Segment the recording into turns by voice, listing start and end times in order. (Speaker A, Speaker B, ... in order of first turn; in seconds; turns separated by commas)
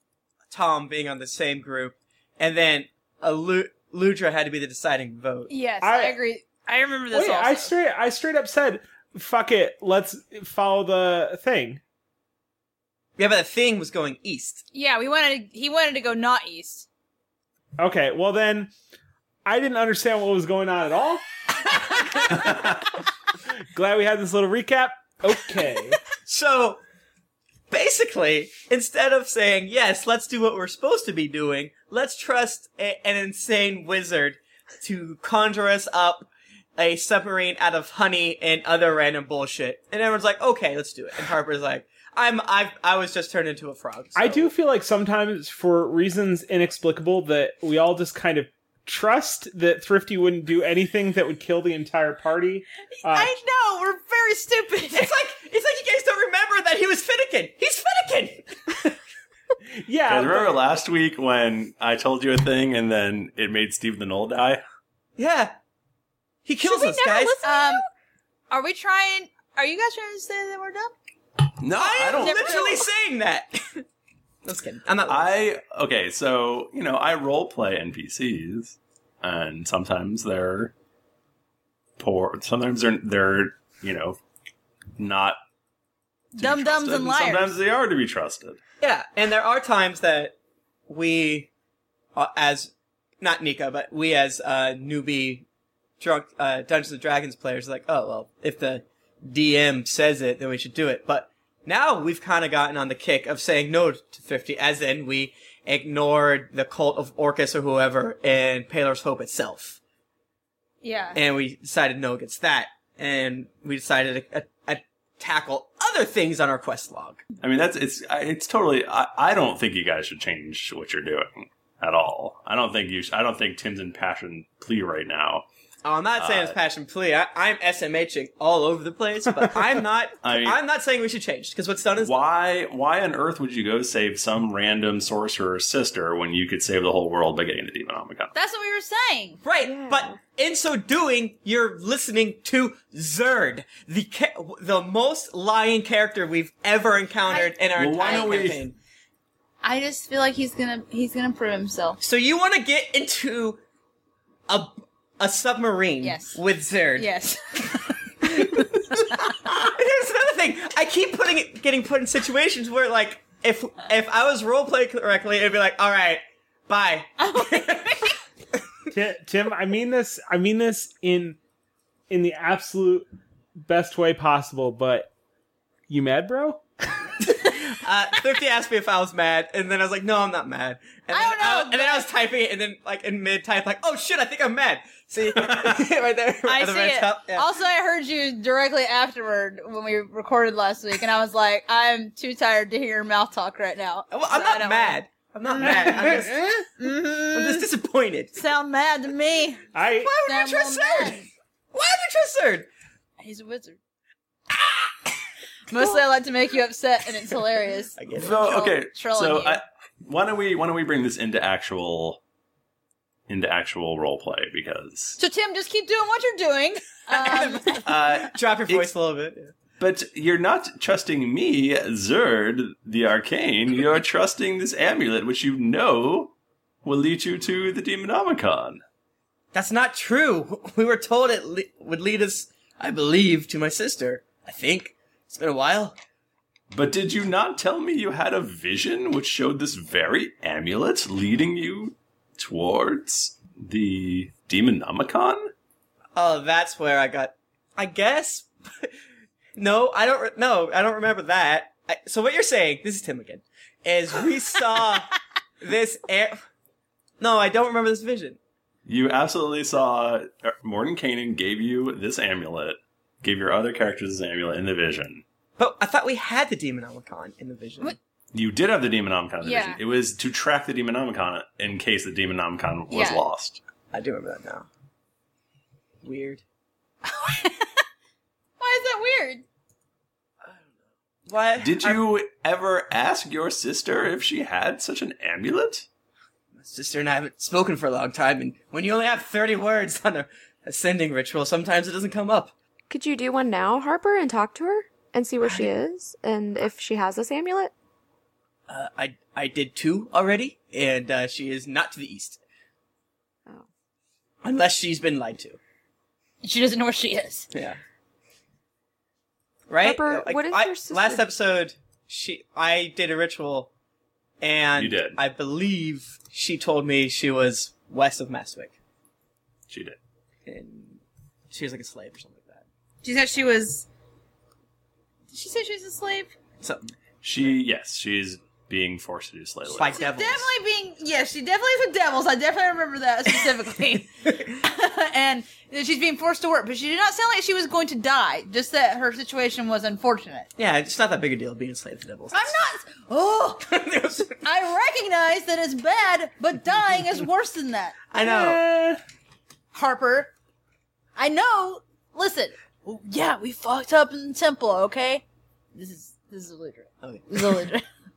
Speaker A: 0.5-5.5, Speaker B: 5.5-7.7, Speaker C: 5.8-6.2, Speaker C: 7.1-11.8, Speaker A: 13.2-14.6, Speaker B: 14.7-16.9, Speaker C: 17.8-18.7, Speaker C: 19.5-22.6, Speaker C: 23.7-26.0, Speaker A: 26.3-26.8, Speaker A: 27.7-44.5, Speaker C: 44.1-53.4, Speaker B: 53.1-55.1, Speaker A: 54.9-58.6, Speaker C: 59.8-60.7, Speaker D: 60.1-64.6, Speaker A: 65.2-65.6, Speaker A: 66.5-67.4, Speaker E: 66.6-67.8, Speaker B: 67.4-67.8, Speaker B: 68.5-70.9, Speaker D: 71.6-72.6, Speaker A: 71.8-73.8, Speaker B: 71.9-72.9, Speaker A: 74.5-75.4, Speaker D: 75.1-80.7, Speaker D: 82.0-84.2, Speaker D: 85.0-85.4, Speaker D: 86.3-88.6, Speaker B: 86.4-87.6, Speaker A: 88.8-90.3, Speaker A: 90.9-91.5, Speaker A: 92.2-95.5, Speaker A: 96.0-109.8, Speaker B: 110.8-111.2, Speaker A: 111.1-117.2, Speaker D: 117.4-125.5, Speaker A: 125.8-132.2, Speaker D: 126.2-126.6, Speaker D: 130.2-130.6, Speaker D: 132.0-138.3, Speaker B: 138.3-139.4, Speaker A: 139.4-148.8, Speaker E: 139.6-140.2, Speaker B: 147.3-148.6, Speaker D: 147.8-148.6, Speaker B: 149.6-152.0, Speaker A: 152.0-153.6, Speaker A: 154.5-157.1, Speaker B: 156.0-156.4, Speaker B: 156.9-157.9, Speaker A: 158.4-168.0, Speaker B: 167.2-168.1, Speaker C: 168.9-171.4, Speaker C: 172.1-173.1, Speaker C: 173.7-175.1, Speaker C: 175.9-176.6, Speaker A: 177.2-187.5, Speaker B: 181.1-182.1, Speaker B: 186.5-197.7, Speaker A: 194.1-196.6, Speaker C: 195.6-196.6, Speaker A: 197.3-198.4, Speaker B: 198.3-199.7, Speaker C: 199.7-200.2, Speaker A: 200.0-202.7, Speaker B: 200.2-201.3, Speaker B: 203.2-203.8, Speaker B: 205.7-209.6, Speaker A: 208.0-208.6, Speaker D: 208.2-212.2, Speaker D: 213.3-215.2, Speaker B: 215.2-217.8, Speaker A: 217.1-219.5, Speaker D: 217.8-218.9, Speaker D: 219.8-226.3, Speaker D: 226.8-228.8, Speaker A: 229.5-235.9, Speaker D: 236.7-245.5, Speaker A: 246.2-248.9, Speaker A: 249.6-255.1, Speaker A: 255.6-256.4, Speaker A: 257.2-258.4, Speaker D: 258.9-265.2, Speaker A: 265.6-268.0, Speaker D: 268.3-273.6, Speaker B: 269.4-269.8, Speaker B: 272.9-273.2, Speaker A: 273.9-274.7, Speaker A: 276.0-276.4, Speaker B: 277.1-277.7, Speaker B: 278.6-279.4, Speaker A: 281.3-282.1, Speaker D: 281.6-285.9, Speaker A: 286.6-292.5, Speaker E: 292.9-297.7, Speaker A: 298.7-302.4, Speaker A: 304.4-305.6, Speaker B: 306.4-307.5, Speaker A: 307.5-307.8, Speaker A: 309.7-313.7, Speaker E: 309.8-311.3, Speaker A: 314.4-318.7, Speaker D: 314.8-315.2, Speaker D: 319.7-320.0, Speaker A: 320.5-321.0, Speaker A: 321.5-322.6, Speaker B: 323.0-323.9, Speaker B: 325.3-326.3, Speaker A: 326.6-326.9, Speaker D: 327.2-330.0, Speaker A: 329.7-330.5, Speaker B: 329.9-340.5, Speaker A: 340.6-342.6, Speaker B: 342.3-343.7, Speaker A: 343.7-344.4, Speaker B: 344.4-348.0, Speaker A: 348.1-348.6, Speaker C: 348.2-349.0, Speaker B: 349.7-350.3, Speaker B: 351.2-355.2, Speaker B: 355.8-357.9, Speaker A: 357.0-357.4